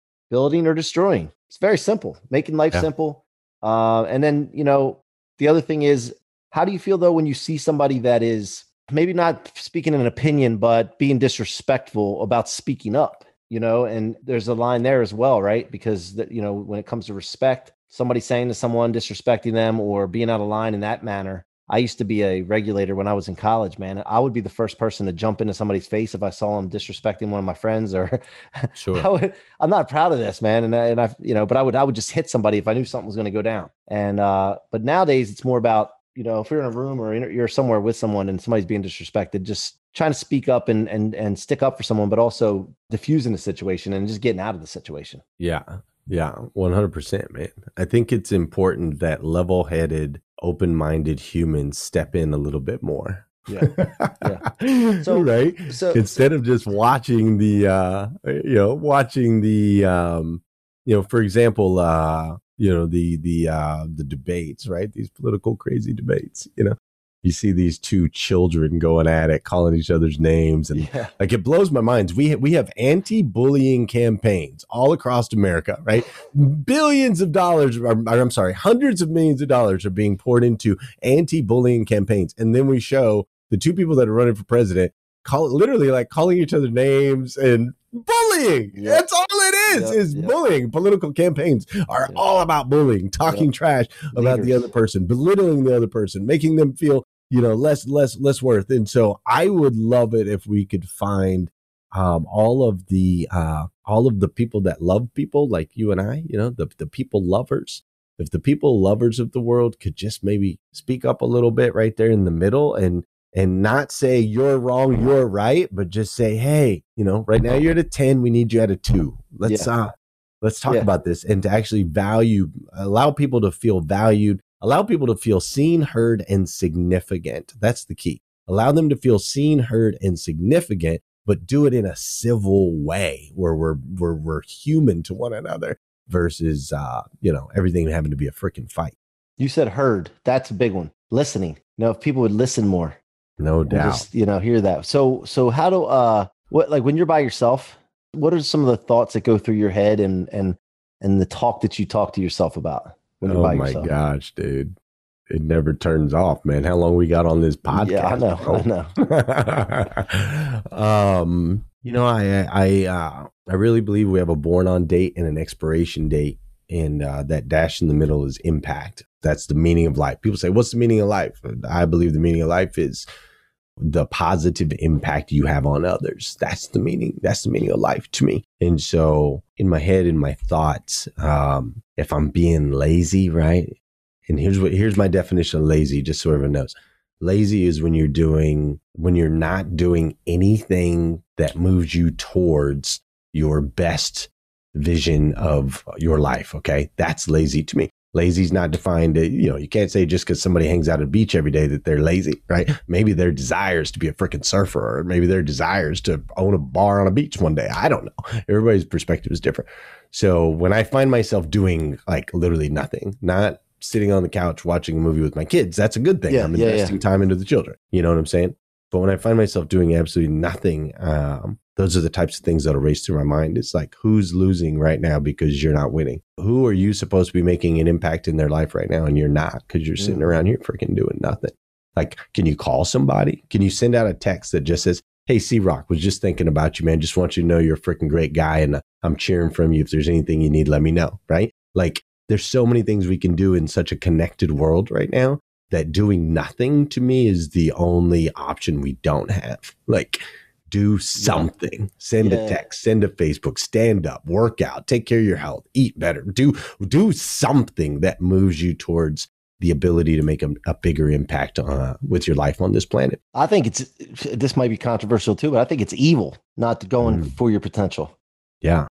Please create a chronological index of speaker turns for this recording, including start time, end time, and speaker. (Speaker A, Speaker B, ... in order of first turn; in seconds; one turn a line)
Speaker A: 0.3-45.2
Speaker B: 28.8-29.1
Speaker B: 45.4-138.9
Speaker A: 54.2-54.5
Speaker A: 55.0-56.1
Speaker A: 70.8-71.1
Speaker A: 88.8-89.0
Speaker A: 89.7-90.3
Speaker A: 94.1-94.7
Speaker A: 139.4-143.0
Speaker B: 143.4-144.1
Speaker A: 143.7-153.9
Speaker B: 153.2-154.8
Speaker B: 155.3-173.1
Speaker A: 157.7-158.9
Speaker B: 173.8-263.2
Speaker A: 216.3-217.0
Speaker A: 230.0-230.3
Speaker A: 251.2-251.5
Speaker A: 252.2-252.6
Speaker A: 263.4-268.1
Speaker B: 267.0-267.3
Speaker B: 268.6-268.9